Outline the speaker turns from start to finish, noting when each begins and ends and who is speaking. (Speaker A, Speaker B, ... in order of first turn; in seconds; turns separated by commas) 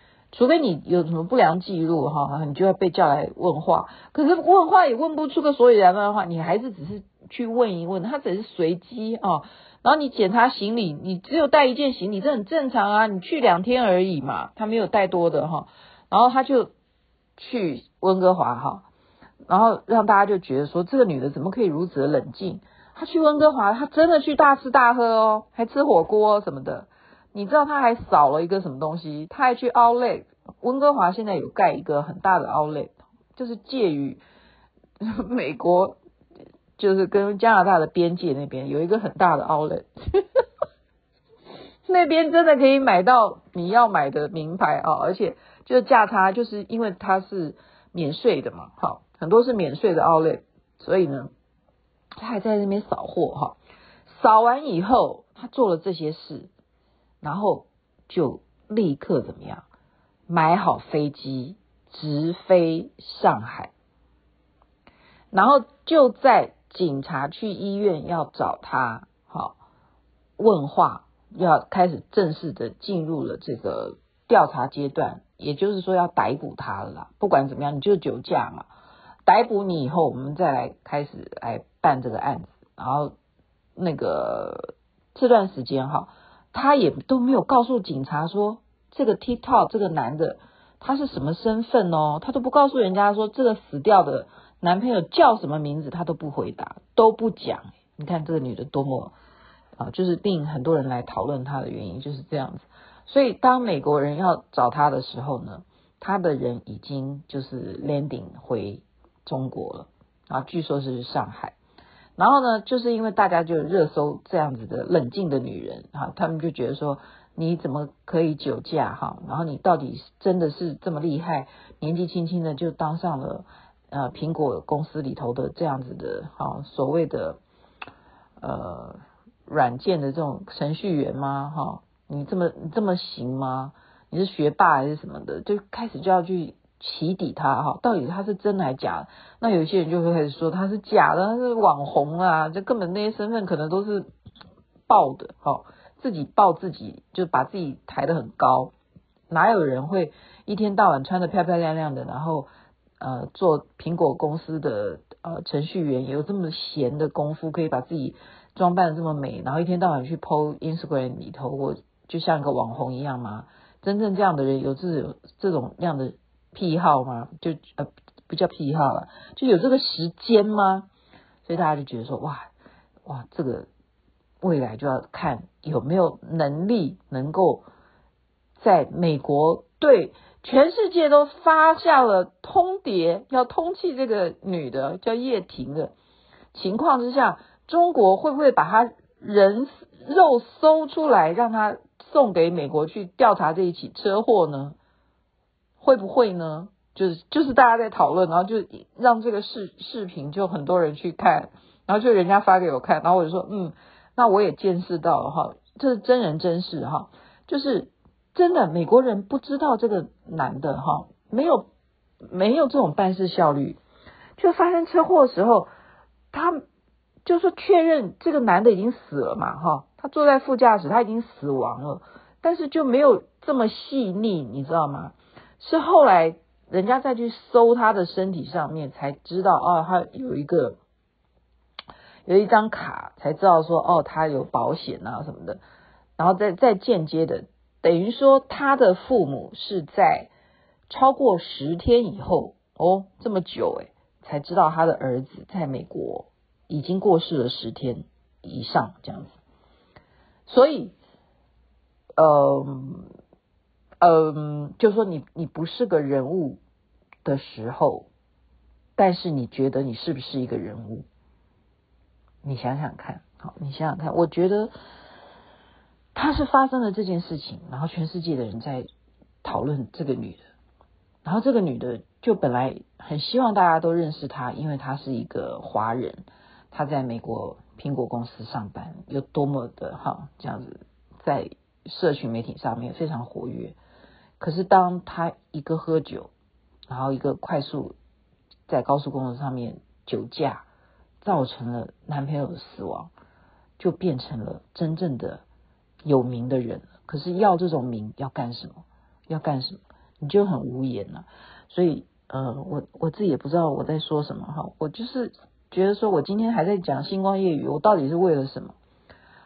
Speaker A: 0.3-16.7, Speaker A: 17.4-18.8, Speaker A: 19.5-34.2, Speaker A: 35.0-36.0, Speaker A: 36.8-40.4, Speaker A: 41.9-51.3, Speaker A: 52.2-56.5, Speaker A: 57.2-59.6, Speaker A: 60.3-63.7, Speaker A: 65.3-69.6, Speaker A: 70.4-78.7, Speaker A: 79.3-83.1, Speaker A: 83.8-99.1, Speaker A: 99.8-111.5, Speaker A: 112.2-127.4, Speaker A: 128.4-144.1, Speaker A: 144.9-148.7, Speaker A: 149.3-152.5, Speaker A: 153.0-170.9, Speaker A: 171.4-172.5, Speaker A: 173.0-173.7, Speaker A: 174.4-177.7, Speaker A: 178.6-185.9, Speaker A: 186.5-194.8, Speaker A: 195.8-211.6, Speaker A: 212.3-213.8, Speaker A: 214.4-215.7, Speaker A: 216.3-216.6, Speaker A: 217.2-230.8, Speaker A: 232.2-235.6, Speaker A: 236.2-240.3, Speaker A: 240.9-249.4, Speaker A: 250.5-250.9, Speaker A: 252.2-253.1, Speaker A: 254.0-256.6, Speaker A: 257.2-258.1, Speaker A: 259.0-261.1, Speaker A: 262.4-264.7, Speaker A: 266.1-268.9, Speaker A: 269.4-270.4, Speaker A: 271.2-283.8, Speaker A: 284.4-286.3, Speaker A: 286.9-287.9, Speaker A: 288.7-290.6, Speaker A: 291.2-293.1, Speaker A: 293.8-295.4, Speaker A: 296.0-308.8